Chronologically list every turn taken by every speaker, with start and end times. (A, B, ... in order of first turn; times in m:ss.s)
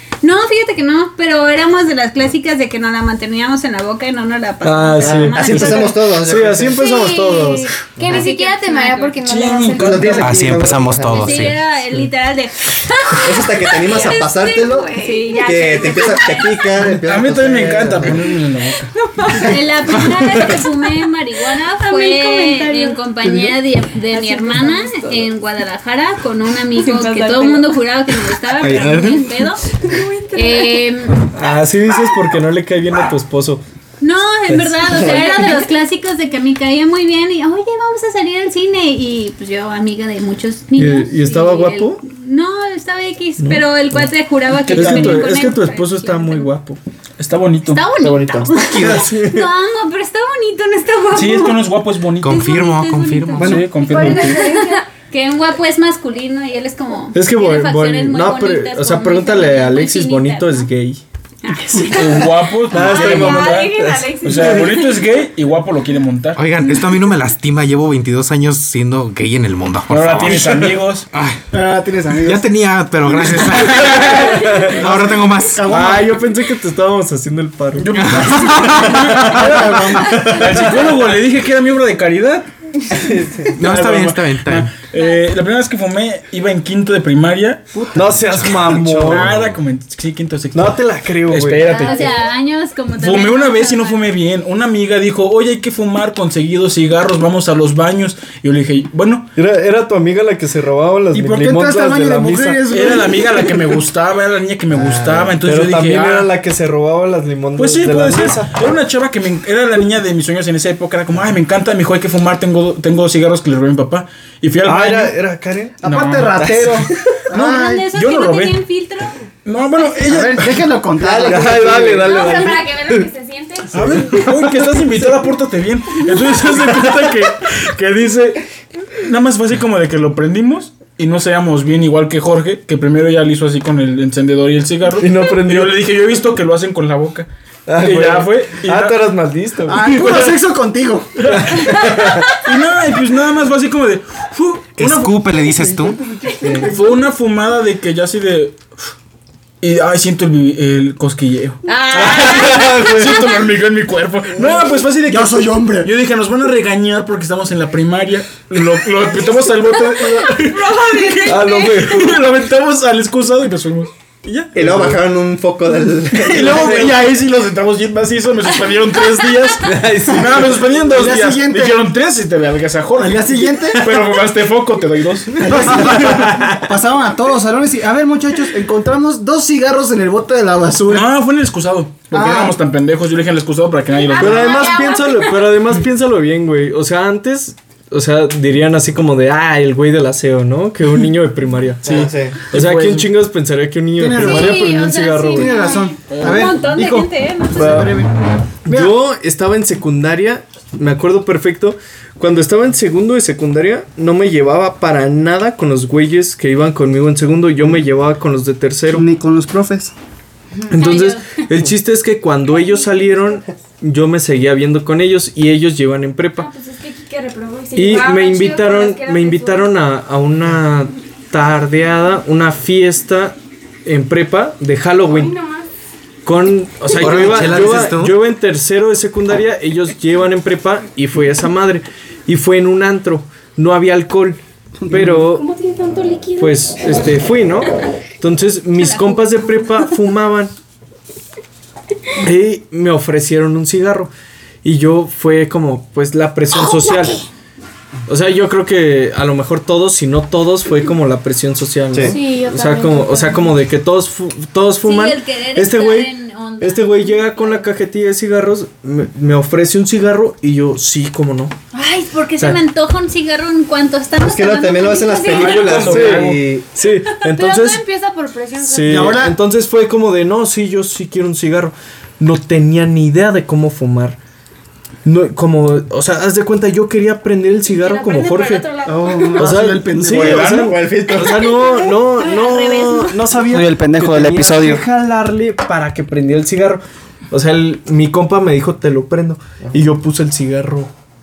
0:00.2-0:06.0 A
0:04.6-0:07.9 B
0:05.0-0:08.3 C
0:06.7-0:10.2 D
0:08.0-0:09.2 A
0:09.3-0:10.2 E
0:09.5-0:10.8 F
0:09.7-0:11.5 C
0:10.1-0:11.6 G
0:11.1-0:14.3 A
0:13.1-0:18.3 C
0:14.4-0:15.0 H
0:14.6-0:15.7 D
0:15.0-0:16.7 A
0:16.8-0:18.9 E
0:19.3-0:29.6 A
0:21.9-0:23.3 D
0:24.1-0:25.2 D
0:26.8-0:27.6 D
0:28.6-0:29.2 G
0:29.8-0:30.7 D
0:30.3-0:31.2 A
0:31.3-0:33.6 B
0:34.0-0:46.5 A
0:34.5-0:35.3 B
0:40.8-0:42.0 B
0:43.4-0:44.0 B
0:44.6-0:45.3 E
0:44.7-0:46.8 B
0:47.2-0:47.8 E
0:47.7-0:51.6 A
0:48.0-0:48.8 C
0:48.8-0:49.5 B
0:51.1-0:52.4 E
0:52.2-0:53.6 G
0:52.3-1:00.7 A
0:53.4-0:54.4 E
0:53.4-0:53.7 F
0:53.8-0:54.8 H
0:57.1-1:01.0 B
1:01.4-1:02.3 A
1:01.8-1:06.4 E
1:02.7-1:04.7 B
1:02.8-1:04.9 H
1:02.9-1:03.6 A
1:06.3-1:11.4 G
1:09.9-1:11.1 E
1:11.5-1:12.5 F
1:12.2-1:15.7 G
1:13.4-1:14.7 E
1:14.3-1:14.8 B
1:14.4-1:16.2 F
1:15.7-1:18.0 B
1:17.8-1:22.5 E
1:17.9-1:19.4 G
1:19.2-1:20.9 B
1:19.4-1:20.2 F
1:23.0-1:23.7 B
1:23.5-1:24.7 G
1:23.6-1:27.7 E
1:27.9-1:29.4 B
1:28.3-1:29.6 G
1:28.6-1:32.1 E
1:30.5-1:31.8 B
1:31.7-1:34.1 A
1:33.0-1:39.3 E
1:39.4-1:42.6 B
1:41.1-1:43.8 F
1:42.7-1:46.3 E
1:44.7-1:45.4 C
1:45.4-1:48.7 B
1:47.6-1:55.2 E
1:54.6-1:55.8 B
1:55.8-1:57.8 F
1:55.8-1:56.8 E
1:56.3-1:56.9 B
1:57.3-1:59.1 A
1:57.9-1:58.6 E
1:59.4-2:00.7 E
2:00.0-2:02.1 F
2:01.0-2:03.1 B
2:01.0-2:01.8 C
2:01.9-2:03.9 H
2:03.7-2:19.1 E
2:03.8-2:04.7 B
2:15.0-2:15.8 B
2:17.6-2:19.9 B
2:19.6-2:21.9 F
2:19.8-2:20.4 E
2:21.2-2:21.7 E
2:21.3-2:22.3 B
2:22.4-2:25.5 E
2:24.8-2:26.0 G
2:25.7-2:26.9 F
2:26.6-2:28.6 E
2:29.6-2:43.9 E
2:31.7-2:32.9 H
2:31.9-2:32.5 D
2:32.0-2:33.3 B
2:35.0-2:35.9 F
2:40.2-2:41.7 H
2:41.2-2:42.2 B
2:44.2-2:45.0 B
2:44.5-2:47.0 C
2:46.1-2:56.3 E
2:49.6-2:50.6 B
2:50.9-2:51.8 F
2:53.0-2:54.0 F
2:55.4-3:01.0 F
2:55.5-2:56.5 B
3:00.9-3:04.6 E
3:02.1-3:02.6 F
3:04.0-3:05.6 H
3:04.1-3:15.8 B
3:11.8-3:12.4 C
3:11.9-3:13.2 E
3:14.0-3:14.8 F
3:14.2-3:15.8 D
3:15.3-3:18.1 F
3:16.1-3:16.6 E
3:16.2-3:17.9 A
3:17.5-3:18.0 B
3:18.6-3:29.1 B
3:18.7-3:19.0 F
3:28.9-3:29.9 F
3:30.7-3:36.5 B
3:30.7-3:31.4 A
3:36.3-3:39.9 H
3:37.7-3:45.4 B
3:45.0-3:45.7 H
3:46.2-3:55.5 B
3:46.9-3:48.2 G
3:54.8-3:55.2 F
3:55.1-3:57.3 H
3:56.4-4:00.5 B
3:58.8-3:59.7 A
4:02.2-4:04.1 B
4:04.6-4:07.3 B
4:08.1-4:21.5 B
4:11.9-4:12.2 C
4:12.0-4:13.5 D
4:14.8-4:17.6 A
4:21.7-4:25.7 A
4:24.2-4:26.7 C
4:25.3-4:26.4 E
4:25.6-4:27.9 B
4:27.2-4:29.0 D
4:28.6-4:34.2 B
4:28.9-4:29.4 F
4:35.0-4:38.8 B
4:37.6-4:39.5 H
4:38.8-4:40.6 F
4:39.3-4:50.9 B
4:40.1-4:40.8 E
4:40.2-4:41.6 C
4:41.7-4:43.3 A
4:43.4-4:44.8 F